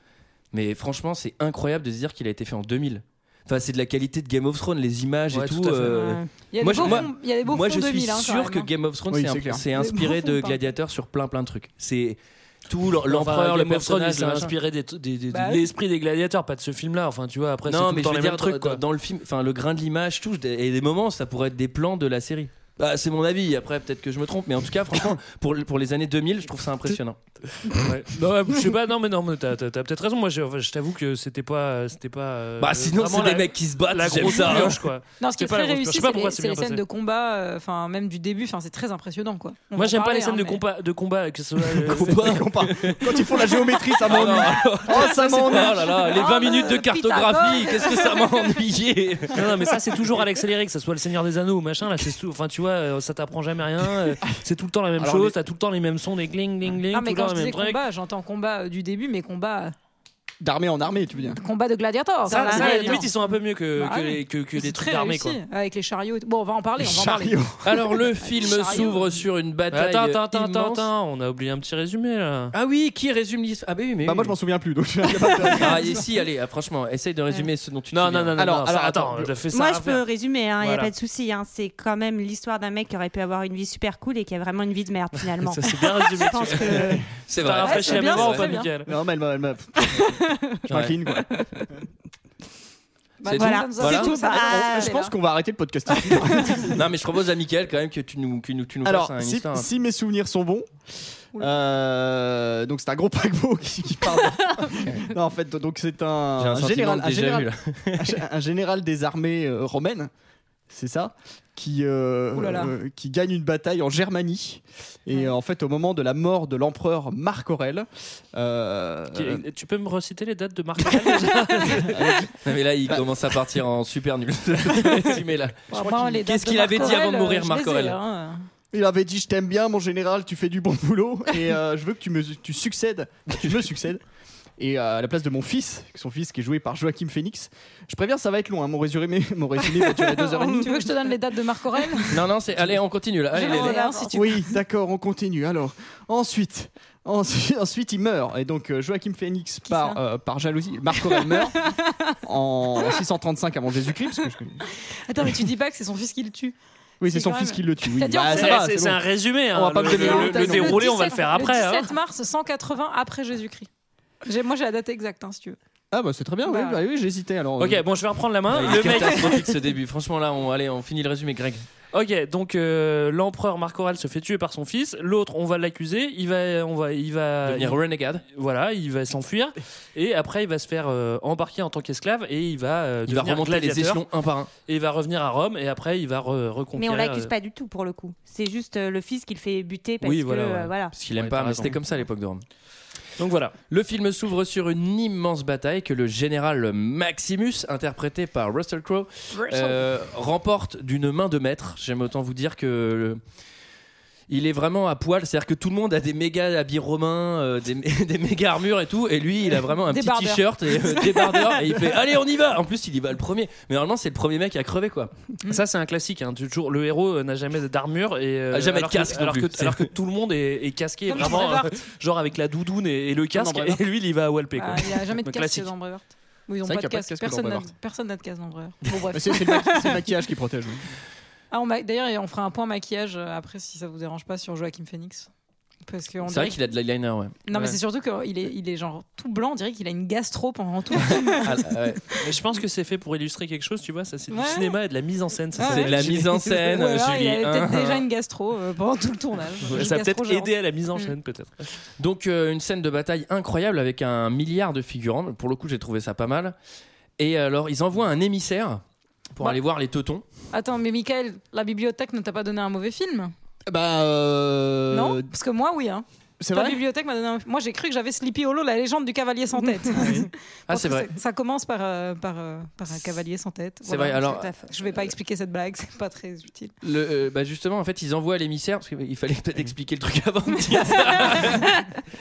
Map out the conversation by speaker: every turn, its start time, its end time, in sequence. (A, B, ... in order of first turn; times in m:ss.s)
0:00.5-0:14.5 A
0:05.3-0:06.2 B
0:05.9-0:08.7 C
0:09.1-0:09.6 D
0:09.7-0:10.6 C
0:13.0-0:18.8 B
0:15.3-0:15.7 C
0:17.7-0:27.2 A
0:27.7-0:36.8 B
0:32.6-0:34.8 A
0:35.2-0:40.6 C
0:39.8-0:42.4 B
0:41.8-0:45.9 D
0:41.8-0:49.5 A
0:44.9-0:48.5 C
0:49.3-0:57.8 B
0:55.0-0:55.4 D
0:56.9-0:59.7 C
1:00.4-1:01.4 D
1:01.2-1:03.1 C
1:02.3-1:05.4 B
1:02.3-1:03.1 E
1:03.8-1:09.2 C
1:06.8-1:08.0 D
1:07.6-1:10.9 A
1:09.7-1:12.5 B
1:12.5-1:14.4 A
1:14.0-1:15.9 D
1:15.6-1:18.4 A
1:17.9-1:20.1 B
1:18.4-1:19.4 D
1:19.5-1:27.0 E
1:20.6-1:20.9 B
1:25.4-1:28.9 B
1:26.6-1:27.1 D
1:27.3-1:28.6 A
1:27.6-1:28.7 C
1:28.8-1:31.3 D
1:30.7-1:31.0 A
1:33.2-1:35.1 C
1:33.2-1:34.1 A
1:33.4-1:34.9 E
1:34.0-1:36.8 D
1:36.1-1:36.6 C
1:36.6-1:39.7 A
1:38.8-1:40.7 D
1:41.3-1:50.1 D
1:46.4-1:48.2 A
1:50.7-1:59.4 D
1:52.3-1:52.8 C
1:59.1-2:02.2 B
2:01.8-2:02.2 D
2:02.4-2:08.0 A
2:05.7-2:08.5 C
2:08.7-2:14.0 D
2:13.3-2:13.6 A
2:14.6-2:20.9 D
2:19.6-2:22.3 C
2:22.1-2:23.8 A
2:23.3-2:24.4 C
2:23.3-2:24.4 E
2:24.1-2:31.7 D
2:29.7-2:30.0 C
2:31.1-2:32.2 C
2:32.2-2:34.7 D
2:34.9-2:38.7 C
2:37.0-2:40.9 D
2:38.2-2:42.0 B
2:39.9-2:43.7 C
2:44.2-2:45.6 C
2:45.9-2:47.8 D
2:46.4-2:46.8 C
2:47.6-2:49.4 B
2:48.5-2:51.6 A
2:51.9-3:04.1 B
2:57.4-2:58.2 A
3:03.1-3:04.5 A
3:04.7-3:07.3 B
3:06.8-3:10.9 E
3:10.0-3:11.8 B
3:10.9-3:12.4 A
3:13.2-3:13.6 B
3:13.7-3:23.2 A
3:19.3-3:19.8 C
3:24.3-3:35.1 A
3:29.9-3:31.8 C
3:35.5-3:45.7 B
3:38.5-3:39.9 A
3:41.1-3:41.9 C
3:43.3-3:43.8 D
3:44.6-3:50.0 C
3:46.6-3:47.7 D
3:49.1-3:50.9 D
3:51.5-3:55.3 C
3:55.8-3:56.6 C
3:56.2-3:57.4 A
3:57.5-4:02.4 C
3:57.5-3:57.8 B
4:01.0-4:02.0 A
4:02.2-4:06.5 B
4:04.3-4:04.8 C
4:05.5-4:11.2 C
4:05.6-4:08.0 A
4:09.6-4:11.7 B
4:12.0-4:16.6 A
4:17.2-4:18.8 A
4:19.3-4:20.2 A
4:20.5-4:23.3 C
4:23.7-4:25.3 D
4:24.9-4:36.7 C
4:26.4-4:26.8 D
4:30.0-4:30.3 D
4:30.7-4:31.1 A
4:33.8-4:34.5 A
4:34.2-4:34.8 E
4:36.8-4:41.8 A